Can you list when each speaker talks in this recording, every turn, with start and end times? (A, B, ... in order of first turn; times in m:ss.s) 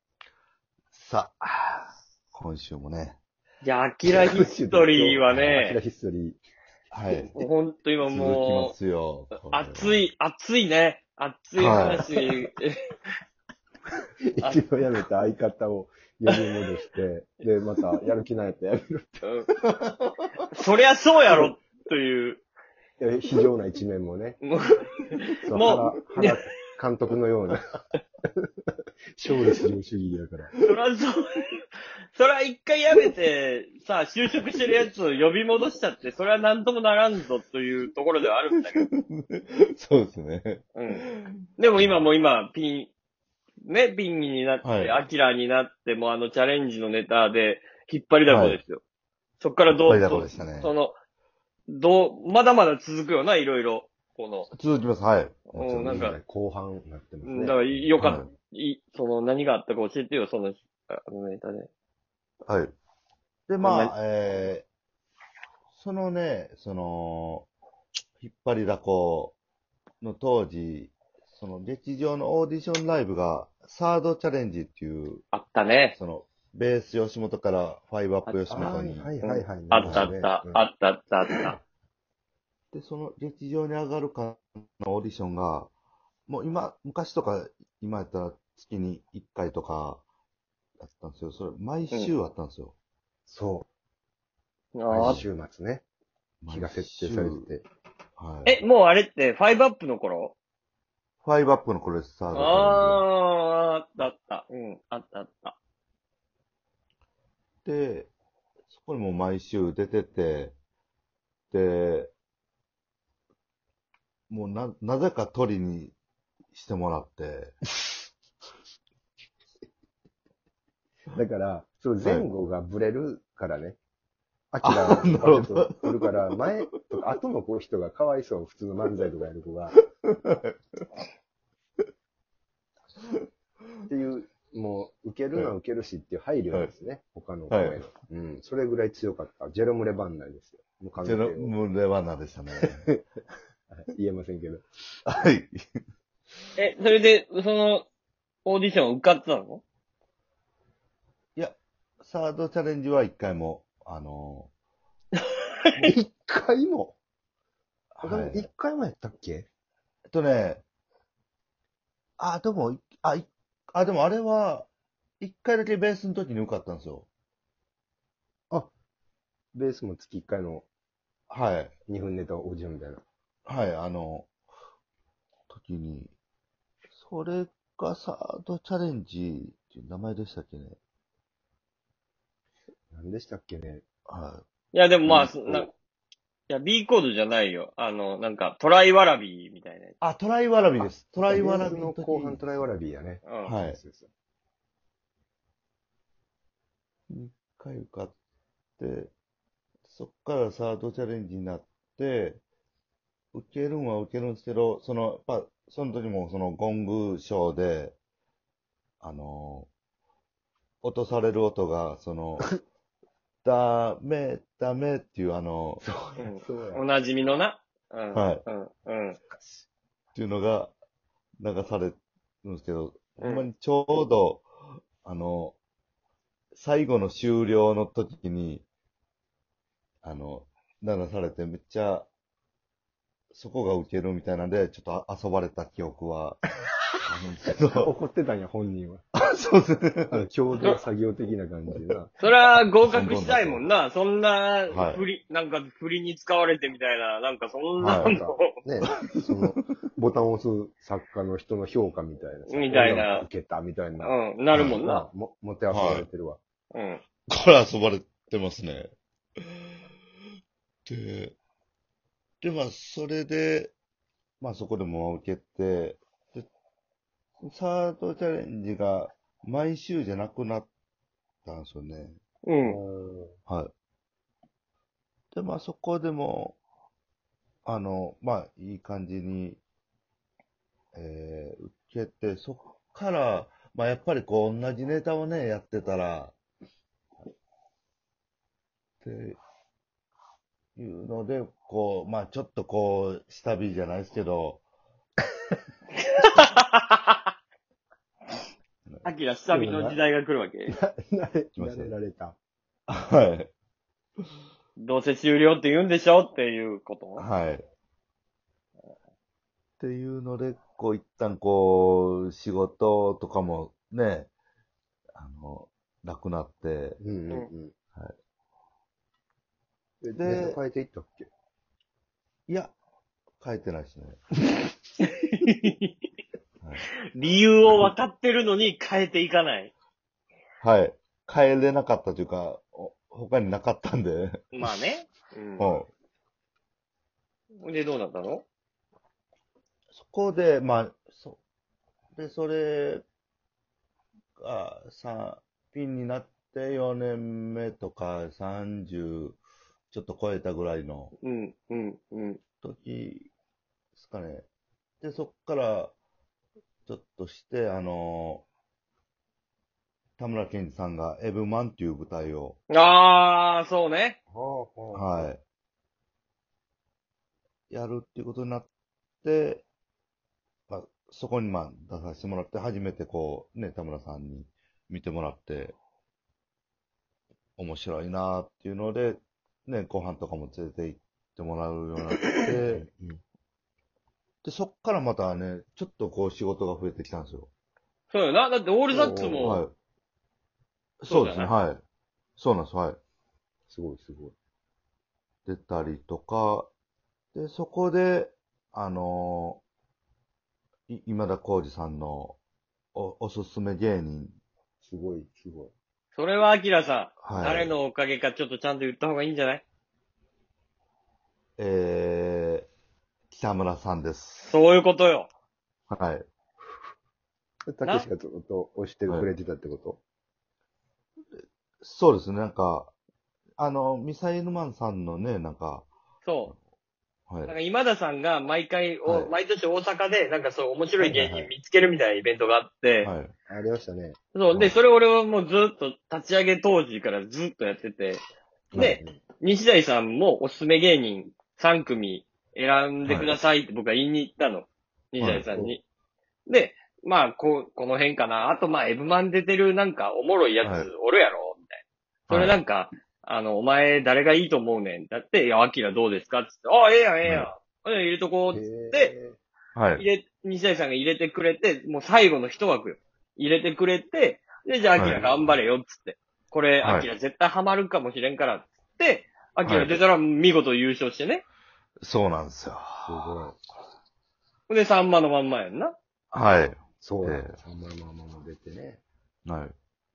0:00.9-0:03.2 A
0:03.6-0:05.8 B
0:04.0-0:06.4 C
0:06.9-0:07.4 A
0:07.3-0:08.8 B
0:08.1-0:10.0 A
0:09.4-0:12.8 B
0:11.6-0:12.1 A
0:14.3-0:19.2 C
0:19.2-0:19.5 B
0:19.8-0:20.2 A
0:20.5-0:22.4 B
0:23.0-0:24.4 C
0:24.4-0:26.4 B
0:25.5-0:27.8 C
0:25.6-0:25.9 A
0:29.2-0:30.6 C
0:30.6-0:38.8 B
0:38.7-0:42.0 A
0:40.8-0:41.0 B
0:41.6-0:42.9 B
0:43.6-0:48.8 B
0:44.6-0:45.0 A
0:48.3-0:48.6 A
0:49.4-0:51.0 B
0:49.7-0:50.7 A
0:51.7-0:54.5 B
0:54.5-0:56.0 A
0:55.6-0:56.2 B
0:55.6-0:57.8 C
0:57.2-1:01.7 B
0:58.0-0:58.3 A
1:02.5-1:02.7 A
1:03.5-1:04.6 A
1:03.6-1:03.9 B
1:05.7-1:07.5 A
1:08.2-1:09.4 A
1:10.0-1:15.2 A
1:15.3-1:16.0 B
1:16.0-1:19.1 A
1:18.5-1:20.6 C
1:19.2-1:21.6 B
1:19.8-1:20.1 A
1:22.7-1:25.7 A
1:26.3-1:30.0 A
1:30.8-1:32.7 A
1:33.3-1:33.7 C
1:34.8-1:35.2 B
1:34.9-1:35.8 C
1:34.9-1:35.2 A
1:36.4-1:37.5 A
1:36.5-1:37.7 C
1:38.2-1:38.6 A
1:38.4-1:40.4 B
1:41.2-1:43.0 A
1:42.3-1:45.6 B
1:47.6-1:48.1 A
1:48.7-1:50.6 A
1:51.5-1:52.1 A
1:54.3-1:56.0 A
1:56.5-1:57.5 A
2:01.1-2:03.8 C
2:02.0-2:02.3 A
2:04.5-2:09.8 C
2:04.6-2:06.1 A
2:10.0-2:10.8 A
2:13.9-2:21.6 C
2:17.5-2:17.8 A
2:21.0-2:22.9 A
2:22.6-2:23.0 C
2:23.7-2:24.7 C
2:25.1-2:25.6 A
2:26.6-2:27.9 B
2:28.4-2:29.6 B
2:31.4-2:34.5 A
2:35.8-2:37.0 C
2:38.0-2:38.5 A
2:38.0-2:39.5 C
2:40.1-2:40.6 A
2:42.2-2:44.7 A
2:45.2-2:47.1 A
2:49.5-2:50.6 C
2:51.3-2:51.7 A
2:51.9-2:53.0 C
2:53.5-2:54.3 A
2:55.5-2:56.1 A
2:56.9-3:00.8 A
3:02.9-3:03.8 C
3:04.1-3:04.4 A
3:04.7-3:05.7 B
3:05.0-3:05.7 A
3:06.5-3:10.0 B
3:10.0-3:12.7 A
3:10.8-3:14.1 C
3:13.2-3:13.5 B
3:13.4-3:13.8 A
3:17.1-3:18.1 A
3:18.8-3:19.1 A
3:19.8-3:22.4 A
3:23.3-3:28.0 A
3:29.0-3:29.7 A
3:30.8-3:32.5 A
3:33.4-3:35.8 A
3:35.8-3:36.8 C
3:36.2-3:39.2 B
3:38.1-3:38.4 A
3:40.2-3:40.7 A
3:41.4-3:44.5 A
3:43.2-3:43.5 B
3:45.0-3:45.6 A
3:46.5-3:48.6 A
3:50.0-3:52.1 A
3:53.3-3:56.4 A
3:57.0-3:57.9 A
3:57.8-3:59.0 C
3:59.2-4:00.2 A
4:00.1-4:02.1 C
4:02.2-4:08.5 B
4:02.8-4:03.6 A
4:04.7-4:05.0 A
4:07.8-4:08.2 A
4:07.9-4:16.4 C
4:08.9-4:09.4 A
4:12.5-4:13.3 B
4:14.0-4:15.1 B
4:14.5-4:14.8 A
4:15.7-4:16.1 A
4:16.7-4:17.0 B
4:17.3-4:19.7 A
4:20.9-4:21.4 A
4:22.4-4:23.7 A
4:24.4-4:26.5 A
4:27.4-4:30.7 A
4:31.4-4:32.2 A
4:32.4-4:32.8 B
4:32.6-4:33.4 C
4:35.3-4:36.6 A
4:37.6-4:39.6 A
4:40.9-4:46.4 A
4:49.0-4:49.4 A
4:50.8-4:54.6 A
4:56.2-4:57.2 B
4:59.0-5:00.8 B
4:59.5-5:00.0 C
5:00.7-5:02.4 C
5:01.6-5:01.9 A
5:02.9-5:03.5 A
5:04.8-5:07.3 B
5:07.2-5:07.6 A
5:09.8-5:14.3 A
5:15.2-5:17.0 A
5:17.0-5:17.8 C
5:20.0-5:21.3 C
5:20.2-5:20.6 A
5:22.5-5:22.8 A
5:23.4-5:24.2 A
5:25.0-5:25.9 B
5:27.1-5:29.7 B
5:30.6-5:34.5 A
5:34.5-5:35.7 B
5:35.6-5:35.9 A
5:37.6-5:38.4 B
5:39.9-5:41.4 A
5:42.2-5:43.0 A
5:44.4-5:49.4 A
5:49.9-5:51.1 A
5:51.2-5:52.4 B
5:52.6-5:53.3 A
5:54.0-5:54.5 A
5:55.0-5:55.9 A
5:56.9-5:58.5 A
6:00.2-6:02.6 A
6:02.7-6:04.2 B
6:04.3-6:05.3 C
6:04.9-6:05.4 A
6:07.7-6:08.7 A
6:09.2-6:09.6 A
6:10.7-6:15.8 A
6:17.6-6:22.9 A
6:22.4-6:23.2 C
6:24.4-6:27.5 A
6:28.1-6:29.6 B
6:28.9-6:29.6 C
6:29.4-6:29.7 A
6:31.0-6:31.8 A
6:31.1-6:31.5 B
6:32.4-6:33.0 A
6:33.7-6:34.3 C
6:35.5-6:36.7 A
6:37.4-6:39.6 A
6:40.9-6:42.4 A
6:43.0-6:44.4 A
6:44.8-6:45.7 C
6:46.1-6:49.6 B
6:47.2-6:47.7 A
6:51.6-6:52.7 A
6:53.3-6:54.6 A
6:54.4-6:55.3 B
6:55.9-6:56.2 A
6:57.7-7:00.0 C
7:01.8-7:02.9 A
7:03.6-7:05.9 A
7:06.2-7:06.5 B
7:07.3-7:07.6 A
7:07.5-7:13.1 B
7:09.0-7:09.3 A
7:11.0-7:11.5 C
7:13.0-7:13.3 A
7:13.5-7:14.2 C
7:14.4-7:18.2 B
7:18.7-7:19.2 C
7:18.8-7:25.8 B
7:23.0-7:23.4 A
7:25.2-7:25.5 A
7:25.5-7:25.8 C
7:26.5-7:39.1 B
7:30.6-7:30.9 A
7:32.3-7:32.6 A
7:37.2-7:37.5 A
7:38.5-7:39.4 C
7:39.8-7:40.1 A
7:40.0-7:51.4 B
7:45.0-7:45.2 A
7:46.8-7:47.1 A
7:49.6-7:50.0 A
7:52.0-7:53.4 A
7:53.1-7:53.6 C
7:54.7-7:56.0 B
7:56.3-7:57.6 A
7:57.0-7:59.0 C
7:59.5-7:59.7 A